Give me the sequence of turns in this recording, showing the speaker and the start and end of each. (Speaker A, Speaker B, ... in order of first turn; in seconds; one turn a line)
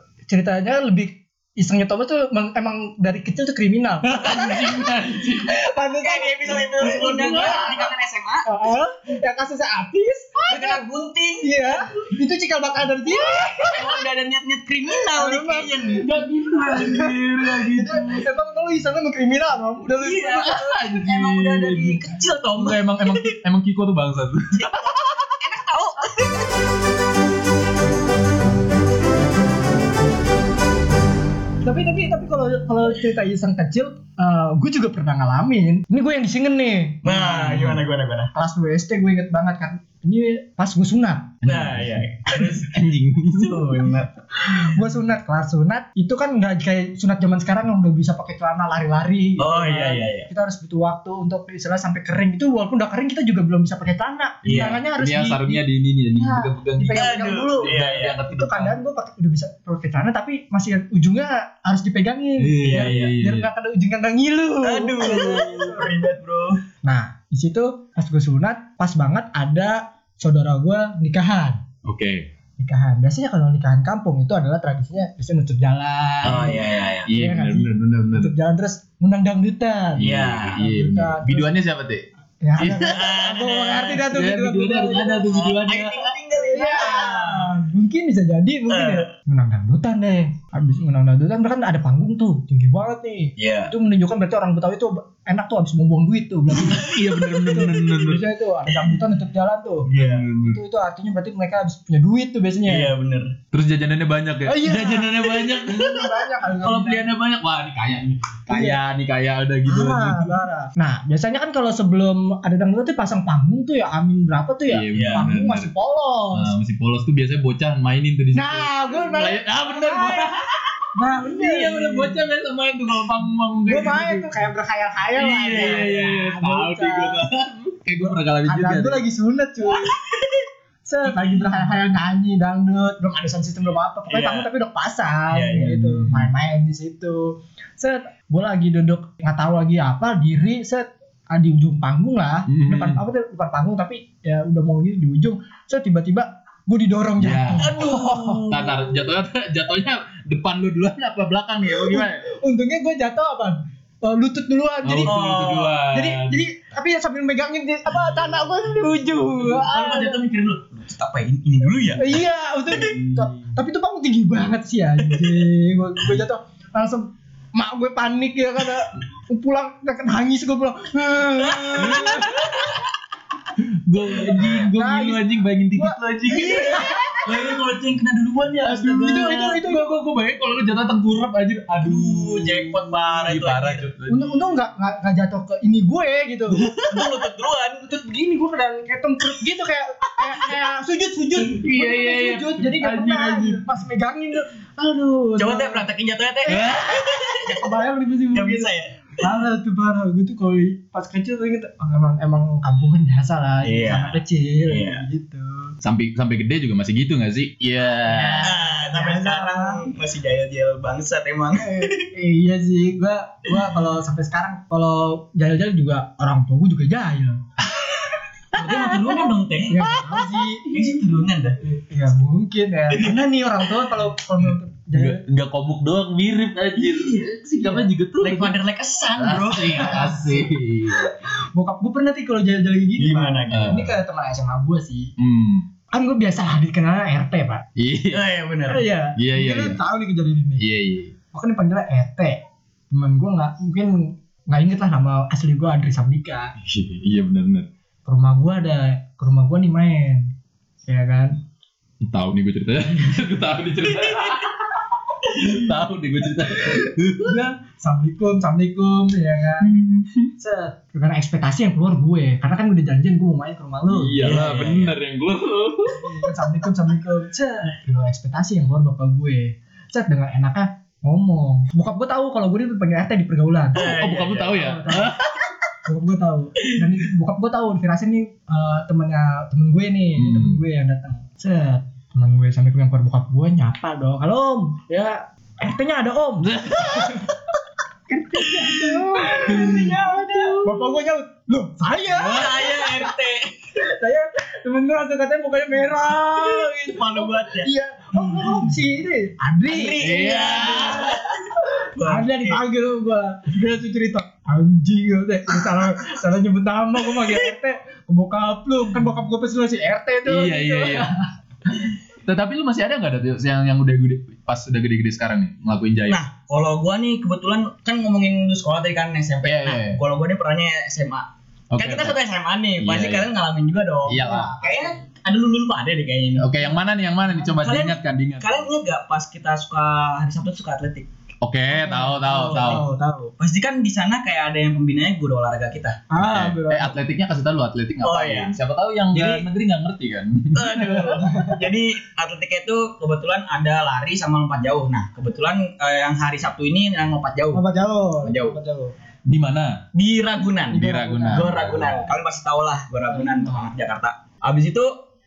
Speaker A: 0.3-4.8
Speaker B: 4.0-5.5
Speaker A: 5.4-7.0
Speaker C: 6.0-8.5
Speaker B: 6.8-7.9
Speaker A: 8.4-10.8
Speaker C: 10.5-11.8
Speaker A: 11.4-13.9
Speaker C: 13.6-16.1
Speaker A: 15.1-16.1
Speaker B: 16.0-18.2
Speaker A: 16.6-20.6
Speaker C: 20.0-23.3
Speaker B: 20.4-22.0
Speaker B: 22.6-25.2
Speaker C: 24.5-26.5
Speaker A: 31.6-37.0
Speaker C: 37.0-38.3
Speaker B: 37.1-37.8
Speaker A: 38.3-41.4
Speaker B: 41.4-42.0
Speaker C: 41.4-42.7
Speaker B: 42.7-43.7
Speaker C: 43.3-44.6
Speaker A: 44.4-55.6
Speaker C: 49.4-50.3
Speaker C: 54.4-54.8
Speaker B: 54.5-58.8
Speaker A: 56.1-57.8
Speaker C: 56.9-58.2
Speaker A: 58.3-66.0
Speaker B: 62.4-63.5
Speaker C: 62.6-63.1
Speaker C: 64.6-66.6
Speaker A: 66.8-71.6
Speaker B: 71.8-72.3
Speaker A: 72.6-76.5
Speaker B: 76.2-78.3
Speaker C: 76.2-77.1
Speaker A: 77.1-81.5
Speaker B: 80.0-82.0
Speaker C: 80.0-80.6
Speaker A: 82.4-85.3
Speaker B: 82.6-83.1
Speaker C: 82.8-84.0
Speaker B: 84.0-86.1
Speaker C: 85.3-87.5
Speaker A: 86.5-99.9
Speaker C: 88.7-89.1
Speaker C: 93.4-93.7
Speaker B: 96.6-98.2
Speaker C: 99.8-100.2
Speaker B: 100.0-100.6
Speaker A: 100.4-102.9
Speaker C: 102.7-103.3
Speaker B: 103.5-110.4
Speaker A: 104.5-107.1
Speaker A: 108.5-108.8
Speaker A: 109.7-116.5
Speaker B: 114.7-115.7
Speaker C: 114.9-115.3
Speaker B: 116.3-124.3
Speaker A: 118.3-120.3
Speaker A: 120.9-122.2
Speaker A: 123.7-127.2
Speaker B: 125.1-129.0
Speaker C: 125.5-126.1
Speaker A: 128.0-129.9
Speaker C: 129.7-130.4
Speaker A: 130.8-148.4
Speaker C: 134.1-134.5
Speaker C: 135.3-135.8
Speaker B: 135.8-136.3
Speaker B: 142.5-143.0
Speaker B: 147.2-152.2
Speaker C: 147.6-148.8
Speaker A: 151.8-160.2
Speaker B: 154.8-156.4
Speaker C: 155.1-155.8
Speaker B: 158.7-159.0
Speaker C: 159.6-162.1
Speaker A: 162.0-172.3
Speaker B: 162.7-163.5
Speaker C: 171.5-172.6
Speaker B: 171.8-172.8
Speaker B: 173.6-177.7
Speaker A: 174.5-177.2
Speaker C: 176.5-178.8
Speaker B: 178.6-184.4
Speaker A: 178.7-179.9
Speaker C: 181.8-183.9
Speaker A: 184.1-186.7
Speaker C: 186.6-187.8
Speaker A: 187.8-195.8
Speaker B: 191.4-193.6
Speaker C: 195.4-197.7
Speaker B: 196.5-197.0
Speaker A: 196.5-198.7
Speaker C: 198.3-199.2
Speaker A: 199.2-205.7
Speaker C: 203.6-205.0
Speaker B: 205.8-208.5
Speaker A: 208.0-209.9
Speaker C: 208.4-212.1
Speaker A: 211.6-217.4
Speaker C: 218.5-220.0
Speaker A: 219.7-220.8
Speaker C: 220.7-221.6
Speaker A: 221.6-225.2
Speaker B: 224.9-228.5
Speaker A: 227.6-227.9
Speaker C: 228.2-230.1
Speaker B: 229.2-231.1
Speaker A: 229.8-235.1
Speaker C: 233.0-233.8
Speaker B: 233.5-233.9
Speaker B: 235.2-235.7
Speaker A: 235.9-237.6
Speaker B: 237.8-238.3
Speaker C: 238.1-238.8
Speaker A: 238.7-240.6
Speaker B: 239.2-239.8
Speaker B: 240.6-241.1
Speaker A: 241.3-242.4
Speaker A: 242.9-246.5
Speaker B: 246.6-247.7
Speaker A: 248.1-250.3
Speaker A: 250.9-251.4
Speaker B: 252.0-257.4
Speaker A: 257.2-259.7
Speaker B: 259.6-260.3
Speaker A: 260.4-264.7
Speaker B: 263.9-266.3
Speaker C: 264.2-264.9
Speaker A: 266.0-274.0
Speaker C: 273.7-274.6
Speaker B: 273.8-275.5
Speaker A: 274.5-275.1
Speaker A: 275.9-287.3
Speaker B: 280.1-280.6
Speaker B: 286.4-287.3
Speaker A: 288.1-293.1
Speaker C: 288.6-290.9
Speaker B: 289.5-289.9
Speaker B: 292.1-292.6
Speaker C: 292.2-293.5
Speaker A: 293.8-299.9
Speaker C: 296.3-297.7
Speaker C: 298.2-298.6
Speaker C: 299.7-302.6
Speaker B: 300.0-301.2
Speaker A: 302.0-311.2
Speaker B: 310.2-311.1
Speaker B: 312.2-316.2
Speaker C: 316.1-326.6
Speaker B: 319.4-320.0
Speaker B: 321.7-322.2
Speaker B: 322.8-323.3
Speaker B: 324.1-324.5
Speaker A: 324.2-324.8
Speaker B: 326.4-328.6
Speaker C: 327.5-331.1
Speaker B: 331.4-332.8
Speaker A: 331.7-333.3
Speaker C: 332.4-332.8
Speaker C: 333.4-336.0
Speaker A: 336.1-337.0
Speaker B: 336.2-341.1
Speaker C: 338.0-338.5
Speaker C: 339.1-339.5
Speaker C: 340.5-347.6
Speaker A: 341.1-341.6
Speaker A: 347.5-348.9
Speaker C: 348.2-348.6
Speaker B: 349.2-349.8
Speaker C: 349.9-354.9
Speaker B: 350.7-352.1
Speaker A: 350.7-351.5